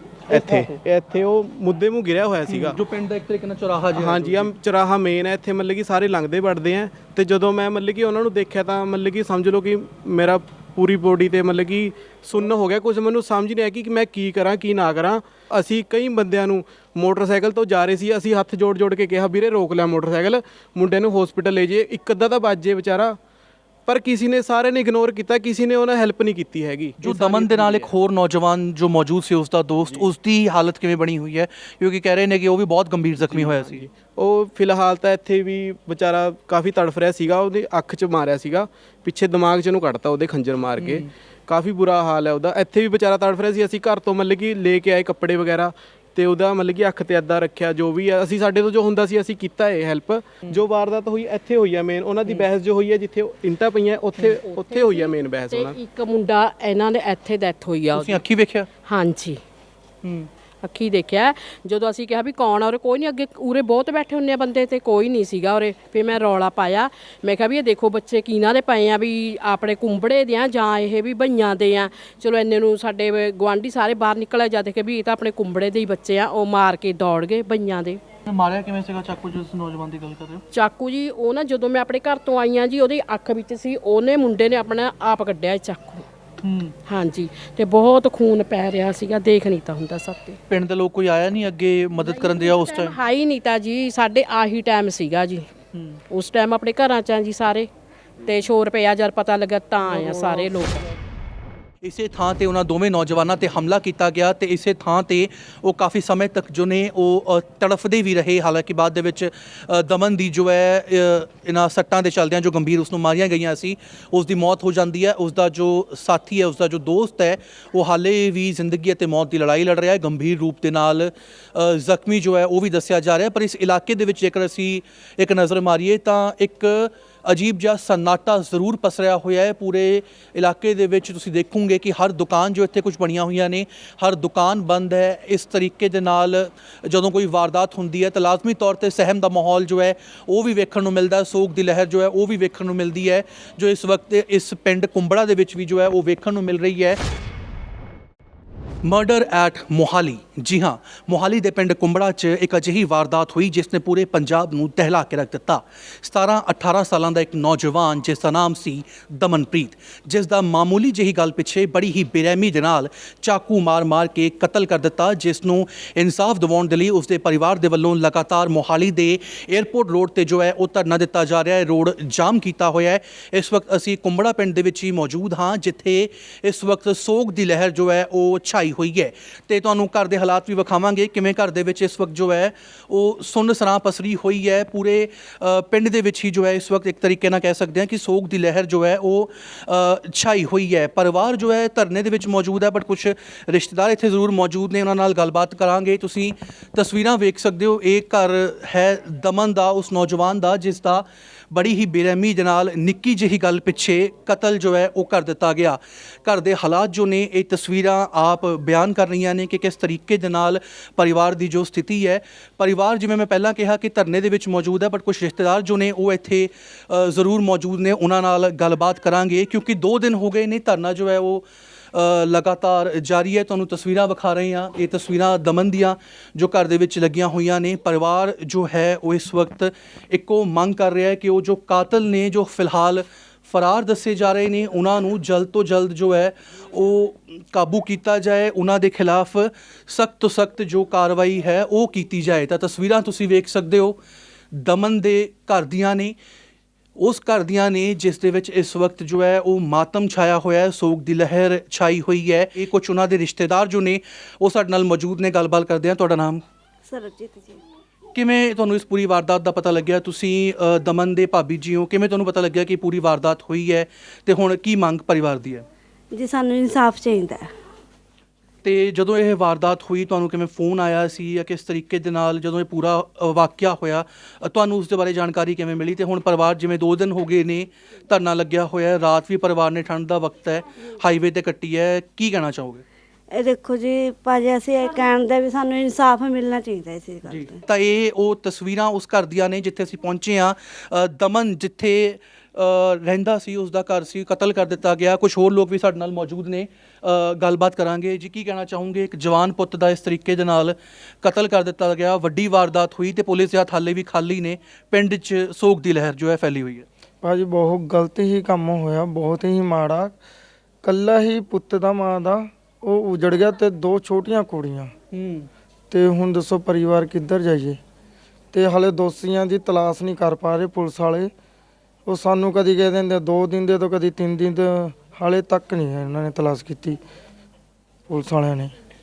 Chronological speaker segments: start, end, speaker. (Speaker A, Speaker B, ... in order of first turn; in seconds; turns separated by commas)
Speaker A: 0.3-0.8, Speaker B: 0.3-2.8, Speaker A: 2.5-4.5, Speaker B: 3.9-23.2, Speaker B: 23.9-27.9, Speaker A: 27.0-33.9, Speaker B: 29.9-30.1, Speaker B: 33.2-55.8, Speaker A: 40.8-41.0, Speaker C: 54.2-58.2, Speaker A: 57.9-58.7, Speaker C: 58.9-59.4, Speaker C: 60.6-78.0, Speaker A: 78.3-80.4, Speaker C: 80.5-86.0, Speaker A: 86.4-86.7, Speaker C: 86.9-90.4, Speaker A: 90.5-93.0, Speaker C: 92.0-95.5, Speaker C: 96.1-97.7, Speaker C: 98.2-100.9, Speaker A: 101.8-147.0, Speaker A: 148.8-244.0, Speaker A: 244.5-246.2, Speaker A: 247.0-256.4, Speaker D: 256.9-257.6, Speaker A: 258.1-265.7, Speaker D: 266.1-267.5, Speaker A: 268.6-282.8, Speaker D: 283.3-287.6, Speaker A: 287.3-306.9, Speaker E: 307.2-310.2, Speaker E: 310.8-314.9, Speaker A: 315.1-315.5, Speaker E: 315.9-317.8, Speaker E: 318.5-321.3, Speaker E: 322.1-327.0, Speaker E: 328.1-328.7